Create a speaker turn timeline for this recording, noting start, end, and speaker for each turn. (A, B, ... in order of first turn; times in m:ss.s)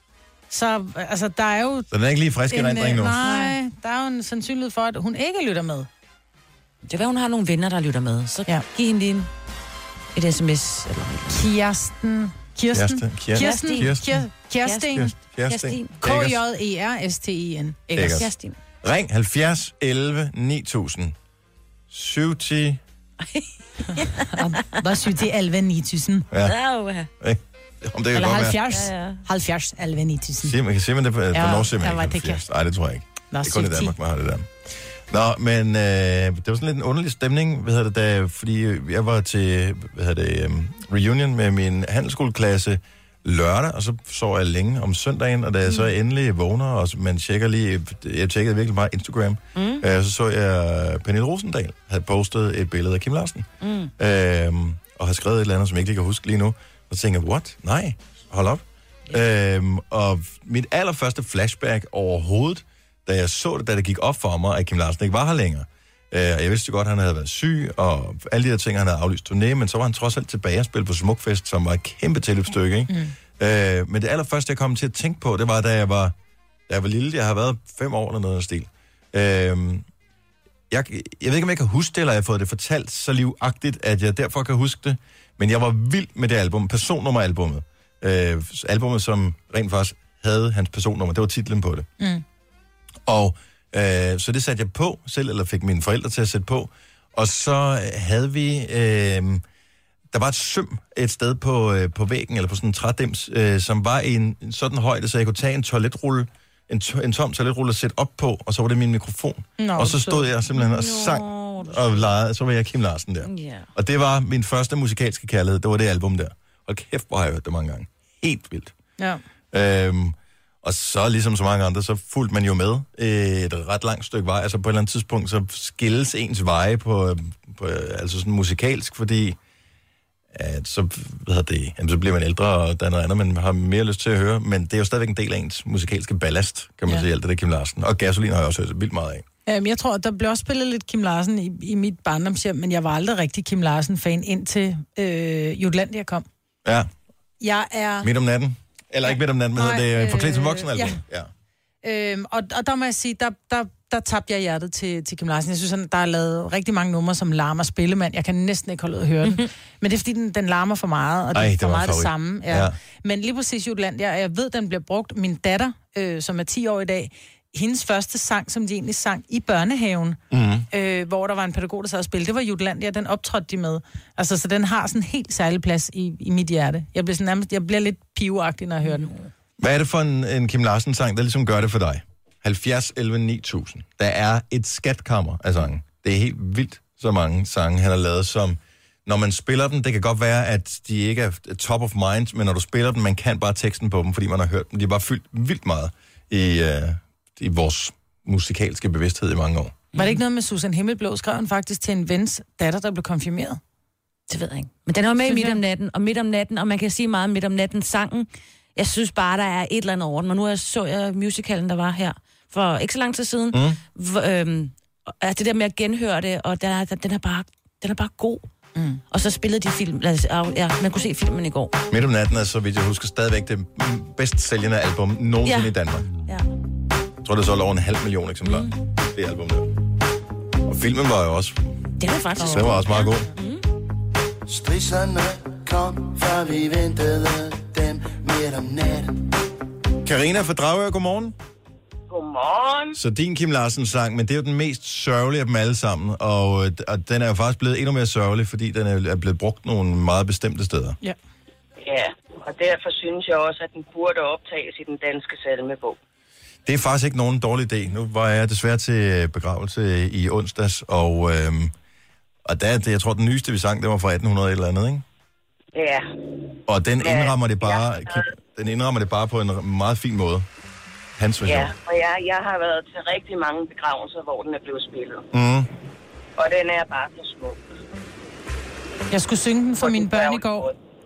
0:00.5-0:01.9 A
0:01.9-0:03.3 B
0:02.5-0:05.9 A
0:03.3-0:03.5 C
0:06.8-0:09.3 C
0:10.1-0:11.4 C
0:11.3-0:15.1 A
0:12.7-0:14.2 B
0:13.3-0:14.0 C
0:14.6-0:16.0 C
0:14.9-0:16.4 B
0:16.0-0:18.3 A
0:17.9-0:18.3 B
0:18.0-0:18.6 C
0:18.8-0:21.1 B
0:21.9-0:22.8 B
0:23.2-0:24.4 C
0:24.3-0:26.3 A
0:26.3-0:26.6 B
0:26.4-0:27.1 C
0:27.2-0:28.6 B
0:28.1-0:30.6 A
0:28.7-0:29.2 C
0:30.4-0:34.5 B
0:31.3-0:32.4 A
0:33.3-0:33.9 A
0:35.1-1:16.1 B
0:49.6-0:49.8 C
0:53.6-0:53.9 C
1:16.7-1:19.8 B
1:20.7-1:31.9 B
1:33.0-1:39.4 B
1:40.1-1:58.7 B
1:49.6-1:50.3 A
1:50.5-1:52.1 C
1:53.2-1:53.7 C
1:59.5-2:09.4 B
2:10.3-2:19.2 B
2:19.4-2:26.2 A
2:26.6-2:26.9 B
2:27.4-2:28.1 A
2:28.0-2:31.3 B
2:29.1-2:31.0 A
2:31.8-2:50.2 A
2:41.3-2:42.8 B
2:50.3-2:50.7 B
2:50.7-2:59.1 A
2:59.6-3:19.8 B
3:19.9-3:20.2 C
3:19.9-3:23.6 A
3:24.3-3:38.4 C
3:25.2-3:25.6 A
3:33.5-3:33.8 B
3:38.8-3:39.0 A
3:39.1-3:41.8 C
3:41.9-3:46.1 B
3:45.4-3:45.7 C
3:47.2-3:49.7 B
3:48.4-3:48.7 C
3:50.6-3:51.8 B
3:52.0-3:53.6 C
3:52.4-3:52.7 A
3:52.4-3:53.3 B
3:54.5-3:59.4 D
4:00.0-4:01.3 B
4:02.1-4:03.0 E
4:02.9-4:11.0 B
4:11.8-4:16.0 E
4:16.6-4:21.7 B
4:22.4-4:25.0 B
4:25.7-4:26.1 E
4:26.7-4:30.4 B
4:27.0-4:28.2 E
4:31.2-4:31.7 B
4:31.4-4:35.2 E
4:35.3-4:35.7 B
4:36.4-4:37.6 E
4:39.1-4:40.7 A
4:39.8-4:40.7 E